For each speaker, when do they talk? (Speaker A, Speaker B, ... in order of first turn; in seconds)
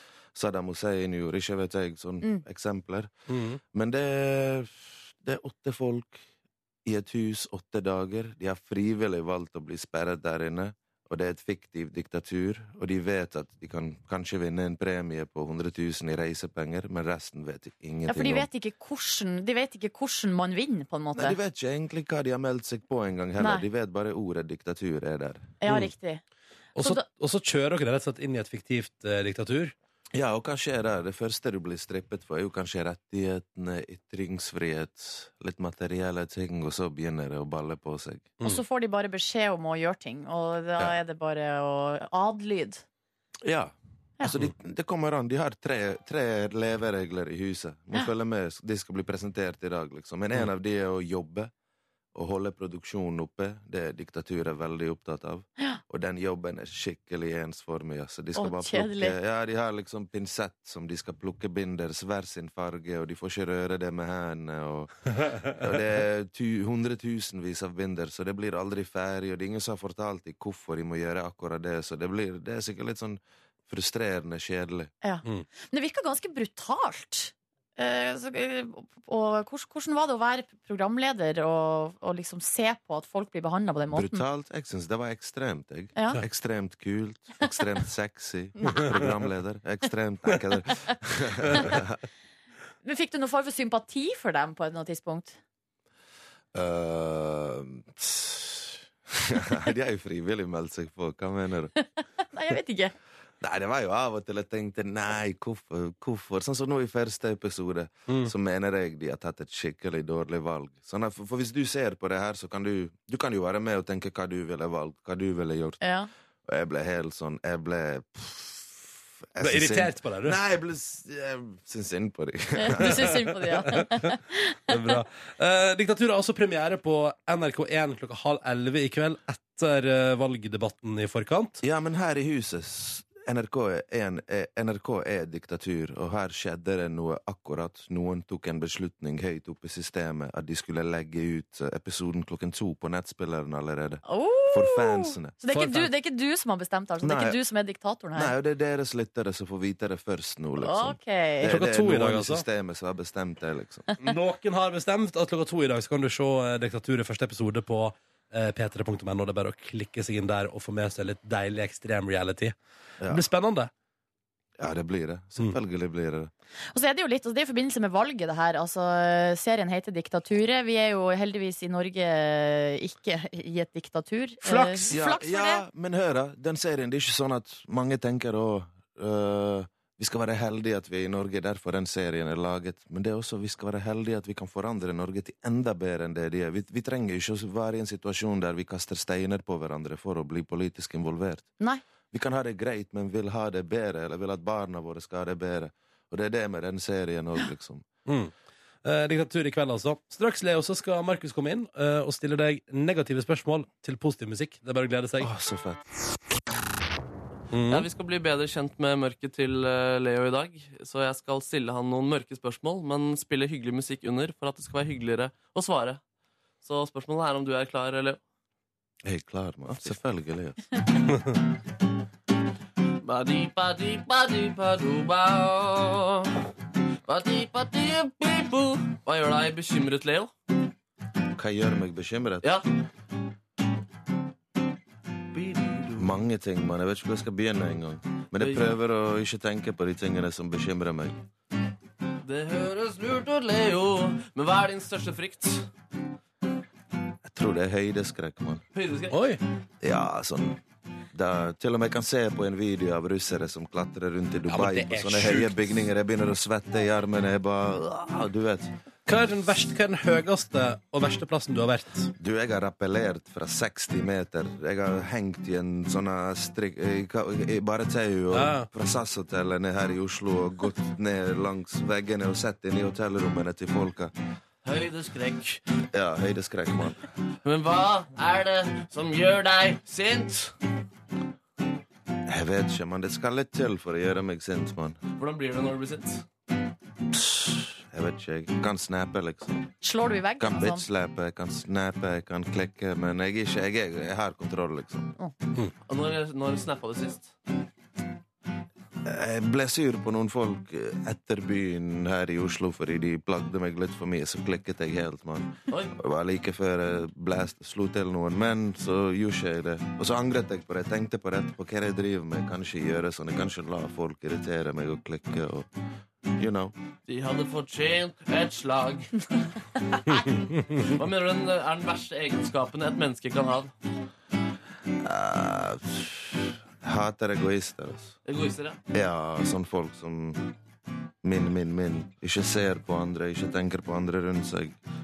Speaker A: 0.3-3.1, 3.7-6.2, 6.8-18.5, 21.1-25.5, 30.1-38.4, 43.4-51.5, 52.1-74.9, 83.9-92.0, 96.5-101.7, 103.4-115.8, 116.4-123.1, 131.6-145.4, 147.0-147.4, 148.1-153.9, 164.6-166.3, 174.9-191.5, 192.1-197.8, 205.2-205.8, 219.0-220.8, 231.3-232.5, 235.9-241.2, 247.2-248.6, 249.8-250.6, 251.1-258.7, 262.2-274.1, 275.9-277.0, 282.3-285.0, 287.1-289.7, 290.4-295.1, 299.0-315.7, 316.3-316.7, 325.0-328.1, 328.9-330.5, 331.2-334.8
Speaker B: 3.3-3.6, 25.6-25.9, 26.7-29.7, 119.4-120.4, 123.7-124.0, 124.7-131.6, 145.5-145.9, 151.4-152.4, 154.0-162.6, 163.1-163.7, 174.4-174.9, 198.1-198.3, 198.8-205.3, 207.5-207.9, 249.1-249.4, 254.5-255.8, 259.1-262.1, 268.3-268.7, 320.3-320.9
Speaker C: 18.1-21.4, 23.4-23.6, 25.6-26.2, 26.8-27.0, 38.4-42.8, 58.3-59.1, 75.0-84.2, 86.0-86.2, 88.6-88.9, 92.8-95.4, 101.8-102.9, 115.8-116.1, 122.5-124.9, 144.0-148.3, 150.6-151.5, 166.7-175.6, 289.8-290.9
Speaker D: 207.7-216.0, 216.6-218.2, 223.0-226.3, 227.1-230.3, 235.3-236.2, 238.4-238.8, 242.2-245.7, 248.7-249.2, 274.6-275.6, 277.4-280.5, 285.2-286.2, 295.9-297.3, 305.7-305.9, 317.1-319.2, 320.8-323.7, 328.2-328.8